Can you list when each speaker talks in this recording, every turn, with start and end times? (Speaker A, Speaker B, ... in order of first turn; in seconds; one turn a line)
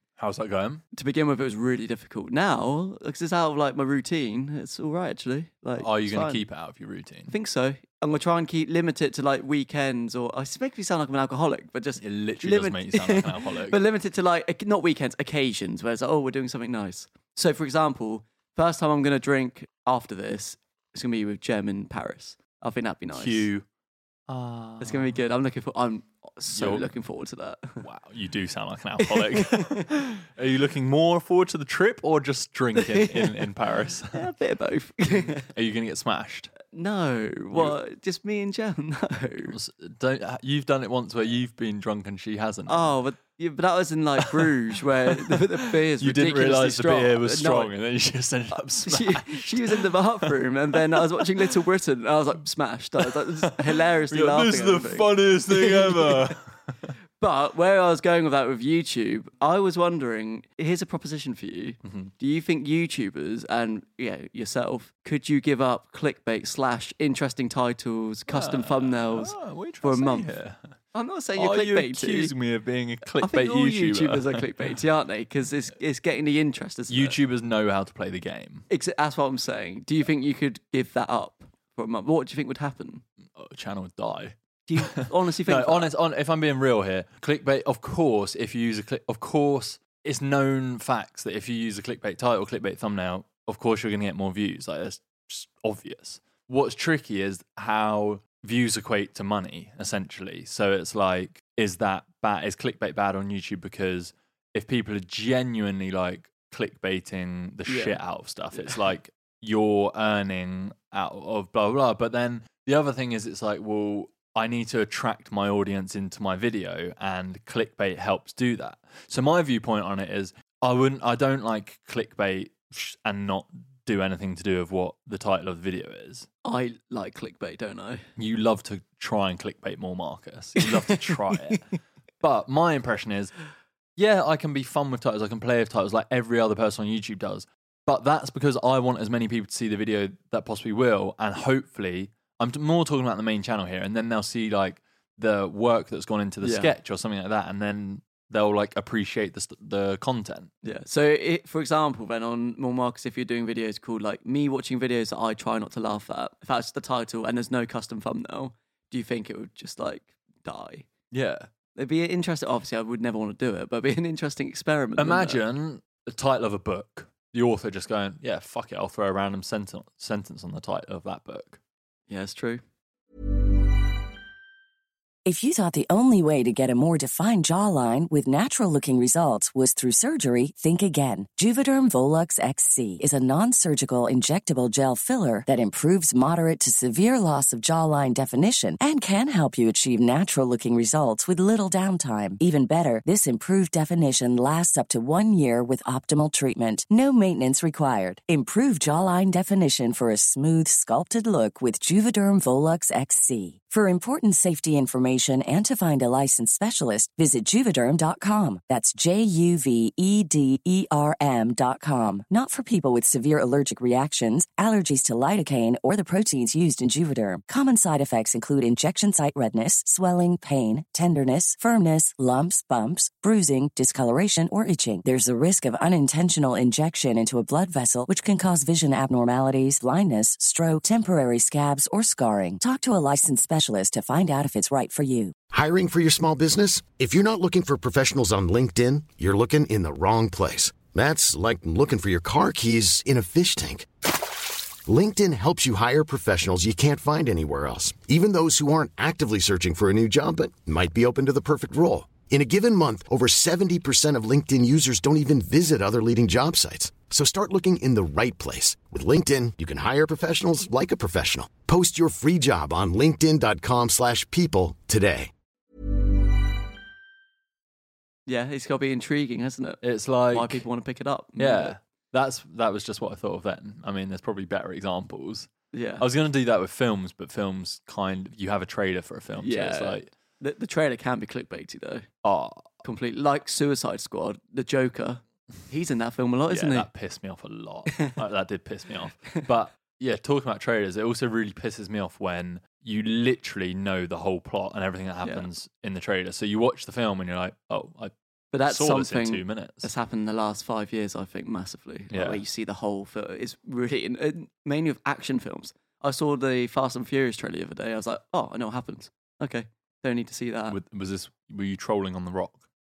Speaker A: 0.2-0.8
Speaker B: 0.9-6.4
Speaker A: 5.8-7.3
Speaker B: 7.3-23.4
Speaker A: 12.0-13.8
Speaker A: 23.1-23.6
Speaker A: 24.3-25.2
Speaker B: 24.8-27.8
Speaker A: 26.5-26.9
Speaker A: 27.8-34.3
Speaker B: 29.0-29.9
Speaker B: 32.8-33.5
Speaker B: 34.1-35.5
Speaker A: 35.2-36.5
Speaker B: 36.7-39.5
Speaker A: 39.5-43.0
Speaker B: 42.7-47.7
Speaker A: 44.2-51.3
Speaker B: 48.5-56.4
Speaker A: 53.0-56.7
Speaker B: 57.2-70.3
Speaker A: 61.8-62.1
Speaker A: 68.3-70.7
Speaker B: 70.9-72.3
Speaker A: 71.3-74.8
Speaker B: 73.2-77.2
Speaker A: 76.9-78.7
Speaker B: 78.7-83.0
Speaker A: 83.3-126.3
Speaker B: 84.7-85.9
Speaker B: 107.7-108.0
Speaker B: 126.4-128.1
Speaker A: 128.2-131.6
Speaker B: 130.7-131.6
Speaker A: 132.2-133.3
Speaker A: 134.0-150.5
Speaker B: 146.4-146.7
Speaker B: 150.6-160.9
Speaker A: 161.1-161.5
Speaker B: 161.8-165.4
Speaker A: 165.0-171.6
Speaker B: 172.1-172.6
Speaker C: 175.2-235.3
Speaker D: 235.5-243.9
Speaker D: 244.8-265.3
Speaker B: 268.2-269.8
Speaker A: 269.8-270.6
Speaker B: 270.3-271.8
Speaker A: 271.4-275.5
Speaker B: 275.7-276.0
Speaker A: 276.0-280.1
Speaker B: 279.4-282.1
Speaker A: 282.2-282.8
Speaker B: 282.8-286.9
Speaker A: 286.5-298.1
Speaker B: 298.5-310.8
Speaker A: 298.6-299.9
Speaker A: 302.1-302.4
Speaker A: 310.7-312.6